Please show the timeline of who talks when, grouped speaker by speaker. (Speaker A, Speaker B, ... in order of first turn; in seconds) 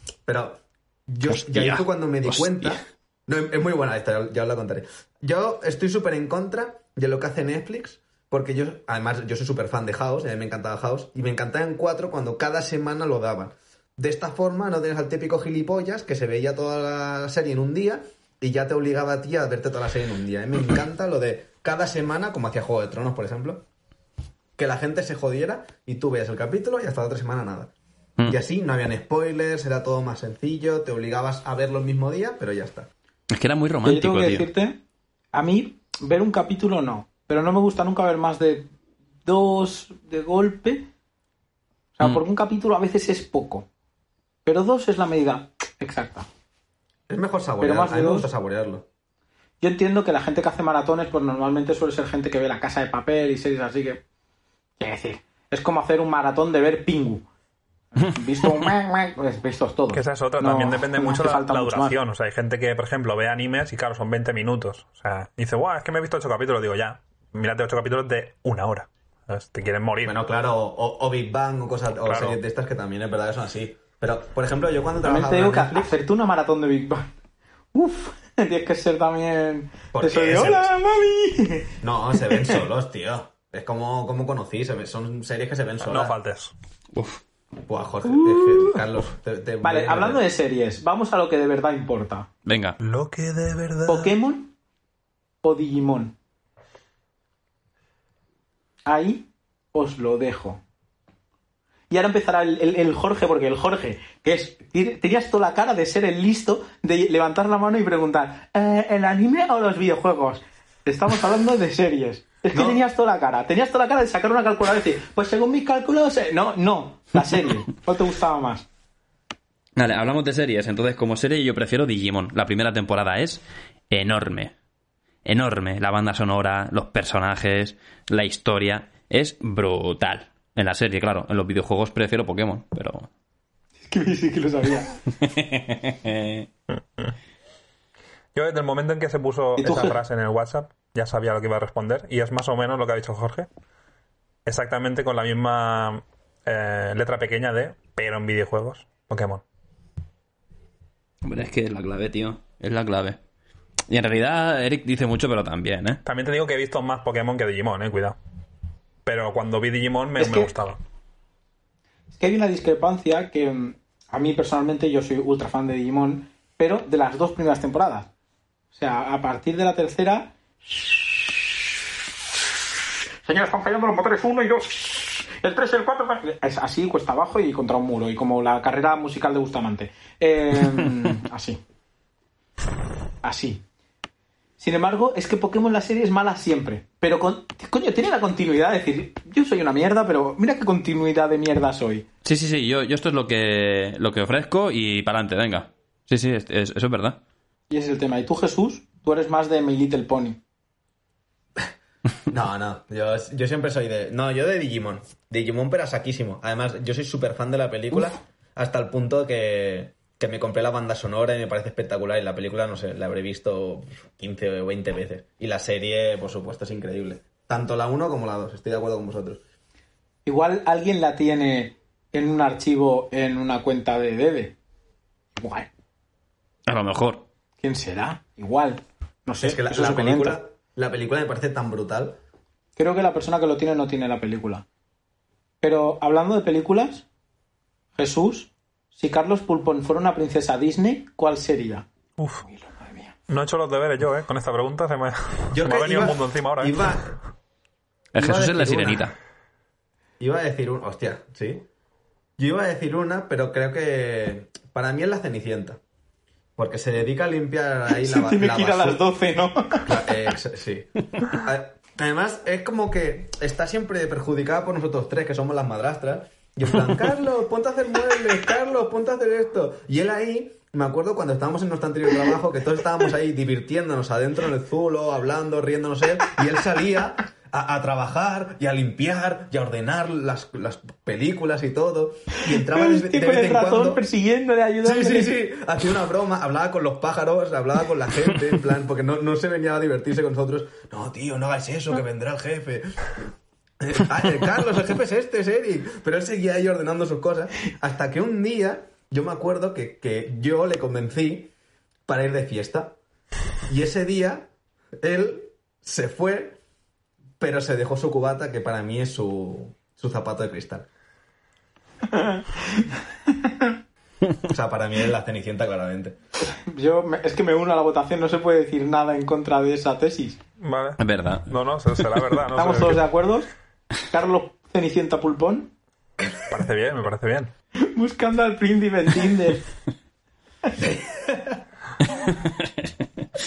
Speaker A: 0.2-23.6, 24.6-27.7, 28.2-32.9, 47.1-48.8, 70.0-75.9, 79.9-80.7, 81.8-86.1, 87.7-90.2, 112.5-112.8, 202.3-219.4, 229.4-232.2, 245.5-247.2, 248.2-249.1, 250.2-251.7, 252.4-255.8, 256.6-259.0, 259.8-284.0, 284.8-293.3, 293.8-301.5, 302.1-303.0, 303.7-306.6, 307.4-310.9, 314.5-316.1, 330.8-331.6
Speaker B: 1.3-2.8, 33.3-34.5, 86.9-87.2, 92.5-92.8, 119.8-124.5, 125.2-133.1, 135.2-136.5, 151.2-153.2, 153.9-156.0, 192.2-197.2, 226.7-227.2, 248.1-249.1, 321.0-321.5, 332.4-332.9
Speaker C: 33.8-34.8, 35.3-38.7, 39.2-40.9, 42.0-43.6, 44.4-46.3, 47.6-48.3, 49.6-54.0, 54.8-57.2, 57.9-62.0, 75.0-77.1, 77.7-82.6, 88.3-88.6, 89.6-92.3, 93.9-94.5, 95.4-96.1, 98.8-100.6, 101.9-118.7, 133.8-134.9, 139.6-140.0, 160.2-160.5, 162.1-168.1, 168.7-171.0, 173.2-181.6, 183.2-183.6, 184.6-192.0, 197.7-200.4, 220.2-224.5, 225.3-225.7, 227.6-230.4, 232.8-234.6, 235.6-237.0, 238.0-241.8, 242.4-243.1, 257.9-260.0, 282.4-285.3, 312.1-312.9, 313.4-313.7, 316.5-320.4, 322.5-323.5, 324.1-325.7, 327.8-329.6
Speaker D: 59.9-70.1, 72.0-72.4, 85.8-86.5, 92.8-94.1, 138.3-143.5, 144.4-149.4, 156.0-158.2, 159.0-160.8, 242.2-242.4, 243.3-246.9, 320.6-323.0, 326.5-327.5